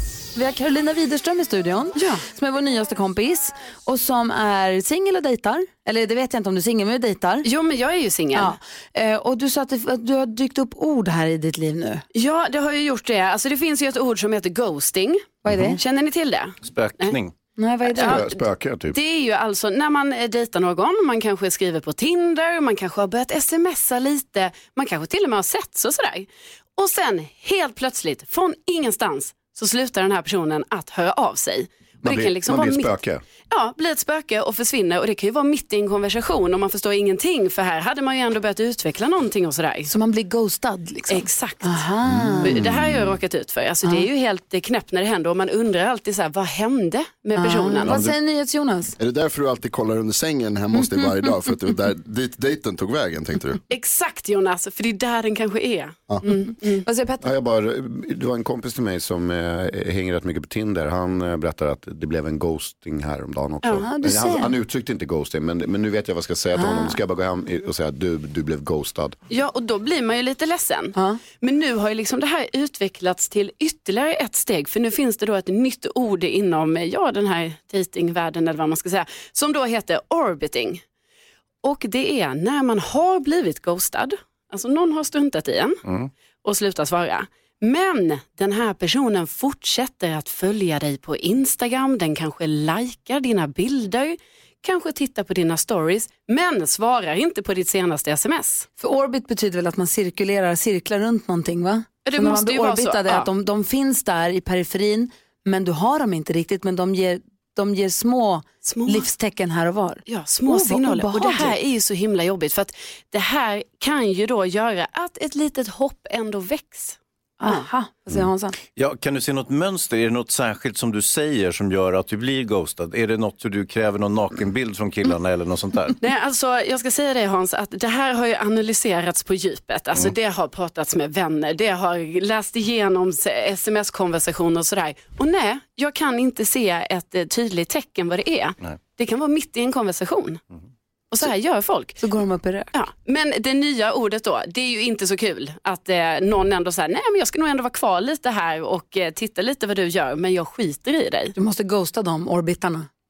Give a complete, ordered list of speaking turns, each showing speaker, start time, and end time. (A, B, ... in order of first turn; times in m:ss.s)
0:00.4-0:07.5 A
0:02.0-0:02.2 B
0:07.4-0:08.5 B
0:08.3-0:12.0 A
0:12.1-0:17.2 B
0:15.4-0:15.7 C
0:15.4-0:15.8 A
0:16.6-0:17.3 D
0:17.6-0:18.3 A
0:17.9-0:33.0 B
0:17.9-0:19.0 C
0:32.0-0:33.2 C
0:33.5-0:39.9 B
0:39.9-0:42.6 A
0:41.1-0:41.8 B
0:42.1-0:43.1 C
0:42.4-0:48.0 B
0:47.4-0:49.0 A
0:47.8-0:48.2 E
0:49.0-0:53.6 E
0:53.7-0:56.8 B
0:56.8-0:57.3 A
0:57.2-1:09.2 C
1:03.8-1:04.5 A
1:06.6-1:07.0 A
1:09.3-1:20.8 B
1:21.6-1:25.8 B
1:26.4-1:38.7 B
1:38.8-1:51.6 A
1:42.0-1:43.3 B
1:48.6-1:49.0 B
1:50.1-1:57.6 B
1:57.4-1:58.6 A
1:58.8-2:06.0 D
2:06.0-2:20.4 B
2:21.1-2:22.0 B
2:22.0-2:22.7 A
2:22.7-2:31.3 B
2:31.4-2:32.9 A